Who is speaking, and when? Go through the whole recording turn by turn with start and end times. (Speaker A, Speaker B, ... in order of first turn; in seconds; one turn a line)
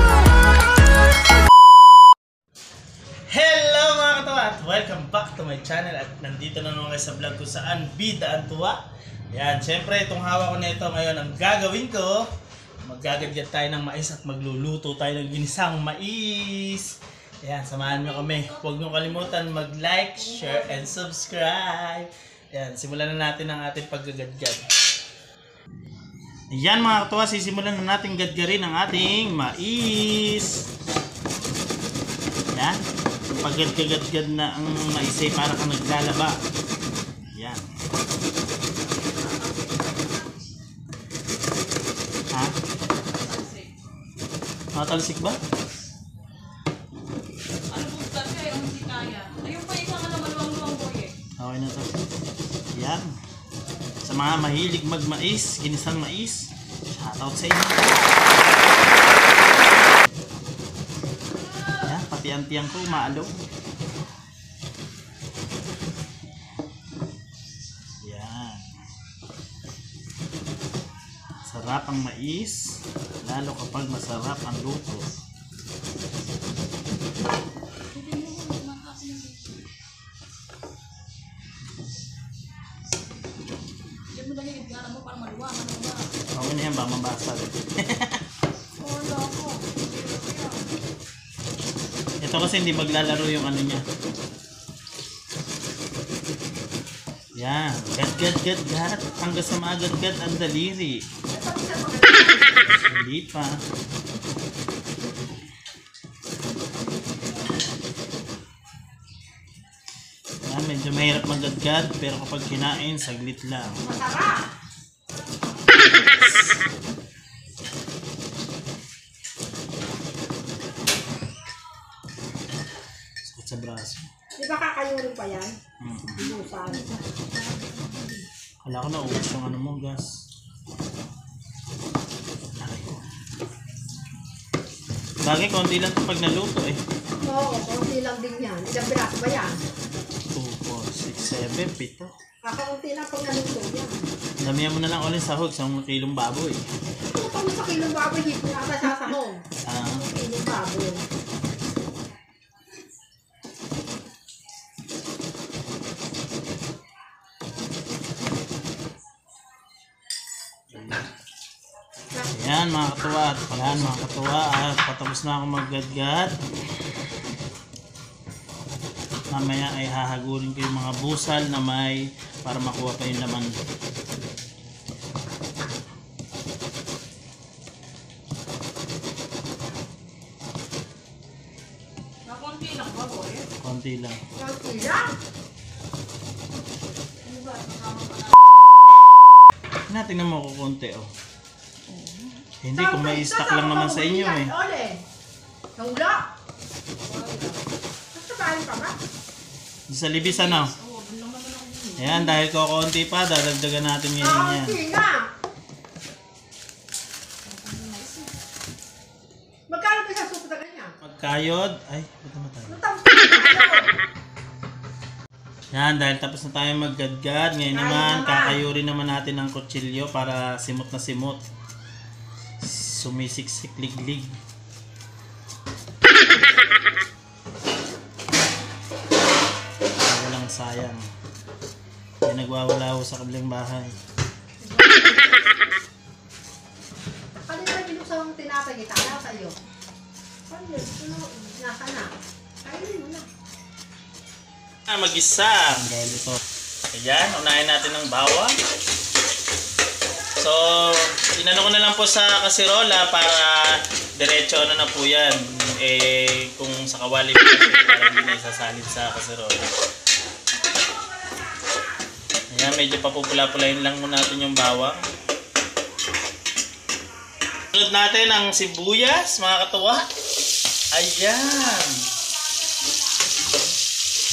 Speaker A: 3.3-12.3
Speaker A: 12.8-24.7
Speaker B: 17.8-19.4
Speaker B: 20.2-20.9
Speaker A: 26.5-30.6
Speaker A: 32.5-36.4
Speaker A: 37.3-37.6
Speaker B: 39.0-40.5
Speaker B: 43.2-43.7
Speaker A: 44.7-45.4
Speaker B: 47.7-51.1
Speaker A: 51.4-52.0
Speaker A: 52.7-53.1
Speaker A: 54.0-58.1
Speaker A: 61.8-63.4
Speaker A: 68.0-68.8
Speaker A: 71.5-75.1
Speaker B: 77.9-79.6
Speaker B: 84.1-86.1
Speaker A: 86.3-88.2
Speaker B: 88.8-90.7
Speaker A: 92.2-93.8
Speaker A: 97.4-101.0
Speaker C: 101.3-102.6
Speaker A: 102.7-103.6
Speaker A: 110.4-113.8
Speaker C: 113.8-114.4
Speaker A: 123.2-124.1
Speaker C: 124.4-125.6
Speaker A: 125.8-126.3
Speaker C: 126.2-126.8
Speaker B: 126.3-128.2
Speaker A: 128.6-130.2
Speaker A: 132.6-133.0
Speaker A: 135.2-136.8
Speaker C: 137.2-139.6
Speaker A: 140.3-142.1
Speaker C: 142.4-143.9
Speaker A: 144.4-146.6
Speaker C: 147.1-151.0
Speaker A: 149.7-150.1
Speaker A: 160.7-161.1
Speaker A: 162.3-166.3
Speaker A: 169.3-173.6
Speaker B: 182.2-183.5
Speaker A: 183.6-184.2
Speaker C: 184.3-185.1
Speaker B: 187.2-188.6
Speaker A: 189.9-191.1
Speaker B: 191.9-192.4
Speaker A: 192.6-194.5
Speaker C: 192.7-195.0
Speaker C: 195.8-196.2
Speaker B: 197.0-197.6
Speaker C: 198.1-199.0
Speaker A: 199.9-200.7
Speaker B: 200.1-202.4
Speaker A: 202.0-204.8
Speaker C: 204.2-205.3
Speaker B: 207.4-208.3
Speaker C: 209.7-210.9
Speaker A: 211.0-212.8
Speaker C: 212.7-213.9
Speaker A: 215.7-221.4
Speaker C: 217.7-218.6
Speaker A: 222.6-224.3
Speaker A: 230.0-231.0
Speaker A: 232.2-233.9
Speaker C: 234.6-235.3
Speaker C: 237.4-239.6
Speaker C: 240.5-242.1
Speaker C: 242.6-243.3
Speaker A: 244.9-246.4
Speaker A: 246.9-248.5
Speaker A: 250.4-259.7
Speaker A: 262.5-265.0
Speaker A: 267.7-270.1
Speaker A: 270.9-272.1